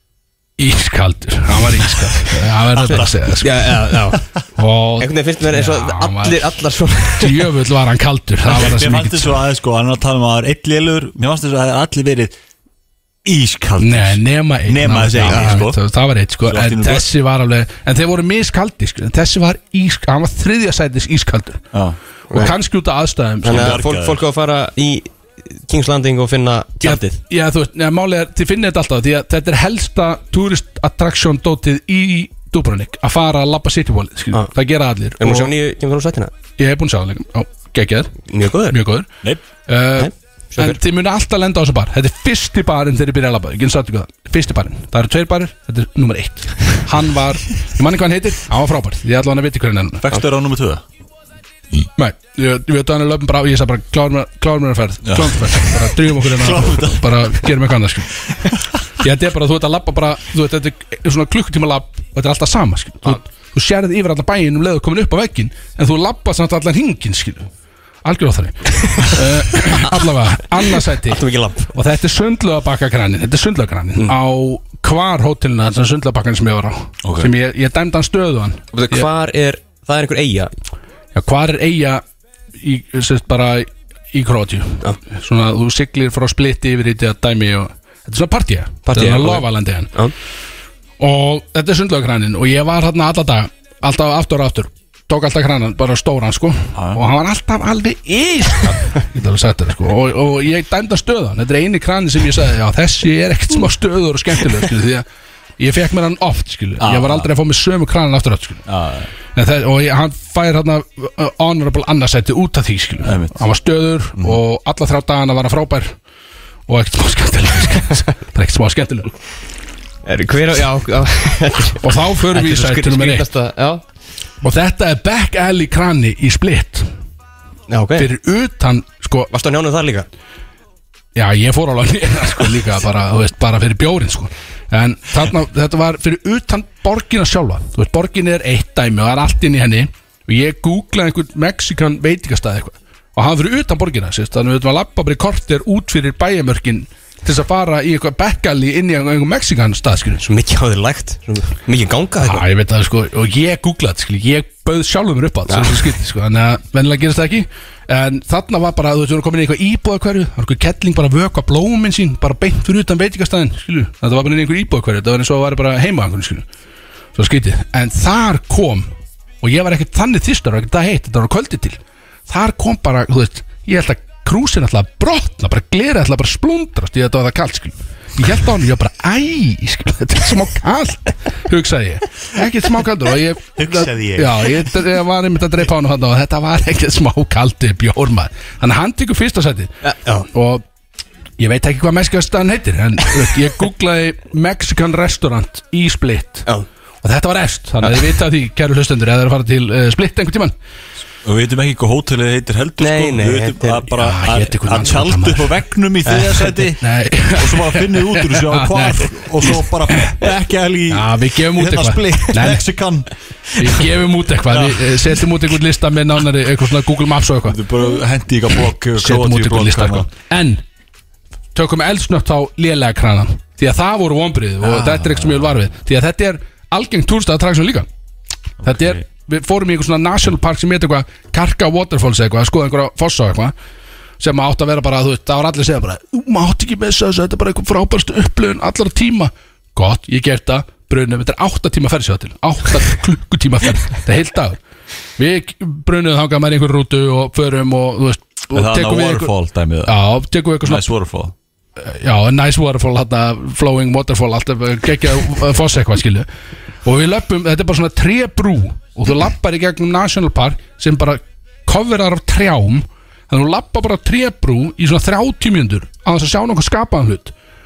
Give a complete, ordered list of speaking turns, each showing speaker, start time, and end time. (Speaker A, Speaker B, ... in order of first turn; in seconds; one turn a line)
Speaker A: 0.6-3.7
Speaker B: 2.8-3.1
Speaker C: 2.9-4.3
Speaker A: 4.6-6.6
Speaker C: 5.0-7.5
Speaker A: 7.2-9.4
Speaker B: 8.5-12.3
Speaker B: 13.2-15.8
Speaker A: 13.8-21.7
Speaker C: 15.3-15.6
Speaker B: 16.5-17.1
Speaker B: 21.7-22.0
Speaker A: 22.3-23.8
Speaker C: 23.4-27.2
Speaker B: 23.4-24.3
Speaker A: 26.8-35.5
Speaker C: 35.2-36.3
Speaker A: 36.6-38.2
Speaker C: 38.3-38.8
Speaker A: 38.7-39.1
Speaker A: 39.7-50.1
Speaker C: 40.0-40.8
Speaker B: 50.0-50.8
Speaker A: 52.0-58.1
Speaker B: 55.0-57.5
Speaker A: 59.0-67.5
Speaker A: 68.0-79.1
Speaker C: 70.9-71.7
Speaker B: 77.0-77.3
Speaker C: 78.7-80.5
Speaker A: 81.2-82.0
Speaker A: 82.6-89.9
Speaker C: 88.9-90.1
Speaker A: 91.0-105.0
Speaker B: 96.8-97.0
Speaker A: 105.6-108.6
Speaker B: 106.8-107.3
Speaker B: 108.7-109.1
Speaker A: 109.3-115.9
Speaker B: 113.0-113.3
Speaker A: 116.7-119.1
Speaker C: 120.1-123.8
Speaker A: 121.8-123.3
Speaker A: 124.4-126.9
Speaker C: 127.7-128.1
Speaker A: 128.0-129.3
Speaker C: 129.3-130.1
Speaker A: 131.2-150.2
Speaker C: 150.2-152.5
Speaker A: 152.2-166.5
Speaker C: 155.5-155.8
Speaker A: 167.2-189.7
Speaker B: 183.6-184.6
Speaker C: 189.8-190.3
Speaker A: 190.3-190.6
Speaker A: 191.4-196.5
Speaker A: 197.0-200.5
Speaker B: 201.2-213.1
Speaker C: 202.8-203.9
Speaker A: 204.0-205.6
Speaker C: 206.1-206.5
Speaker A: 206.8-210.2
Speaker A: 210.9-212.6
Speaker A: 213.6-217.6
Speaker B: 214.5-215.0
Speaker B: 217.4-220.1
Speaker A: 219.0-220.6
Speaker A: 221.6-227.9
Speaker B: 224.6-225.5
Speaker B: 228.6-229.0
Speaker A: 228.6-233.5
Speaker A: 234.2-244.6
Speaker A: 245.2-249.3
Speaker B: 248.5-250.0
Speaker A: 249.8-250.9
Speaker B: 250.6-251.3
Speaker A: 251.8-256.3
Speaker A: 256.9-267.3